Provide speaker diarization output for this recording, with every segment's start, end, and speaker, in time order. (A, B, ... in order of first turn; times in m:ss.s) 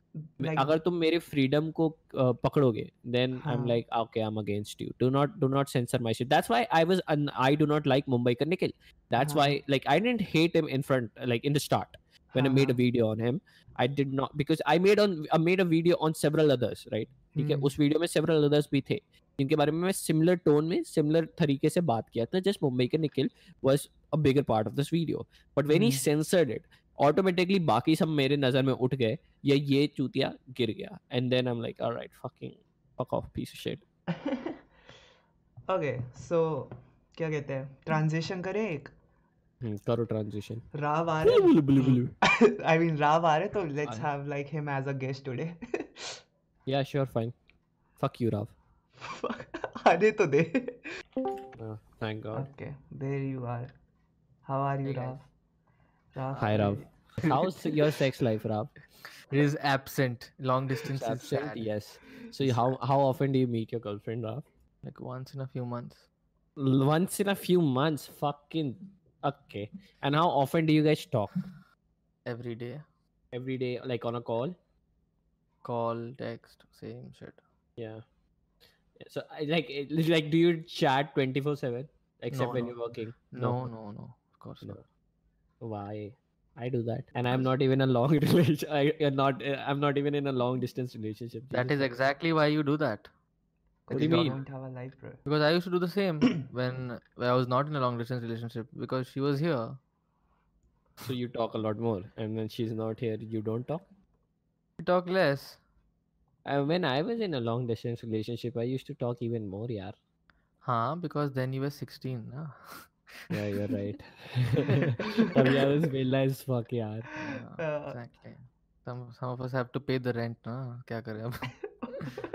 0:00.2-0:00.7 A
0:00.4-0:33.8 B
0:03.4-0:03.8 A
0:09.2-0:09.6 A
0:12.4-0:12.8 A
0:17.4-0:17.7 A
0:25.7-0:26.0 A
0:34.2-0:34.5 A
0:35.7-0:38.9 A
0:39.6-0:40.7 B
0:40.8-0:46.1 A
0:41.2-0:42.1 B
0:46.7-0:47.4 B
0:48.0-0:48.5 B
0:49.0-0:50.9 A
0:51.6-0:52.5 B
0:52.3-0:53.7 A
0:54.5-0:55.3 A
0:54.8-0:55.2 B
0:56.2-0:56.9 A
0:56.4-0:58.7 B
0:57.2-0:57.5 C
0:59.3-1:01.7 C
1:00.9-1:04.4 B
1:02.4-1:02.7 C
1:04.8-1:06.0 C
1:06.6-1:11.4 B
1:12.3-1:12.8 C
1:13.3-1:14.6 B
1:15.6-1:17.4 C
1:17.8-1:18.0 B
1:19.0-1:23.6 B
1:22.3-1:22.8 C
1:23.3-1:24.8 C
1:25.6-1:31.8 B
1:31.5-1:33.1 C
1:33.9-1:35.2 A
1:33.9-1:34.4 B
1:34.0-1:34.4 C
1:35.3-1:39.8 C
1:41.0-1:43.8 B
1:44.8-1:45.6 C
1:46.4-1:50.0 B
1:50.6-1:53.5 C
1:53.3-1:57.1 B
1:57.2-2:02.2 C
1:57.3-1:58.0 A
2:01.8-2:02.2 A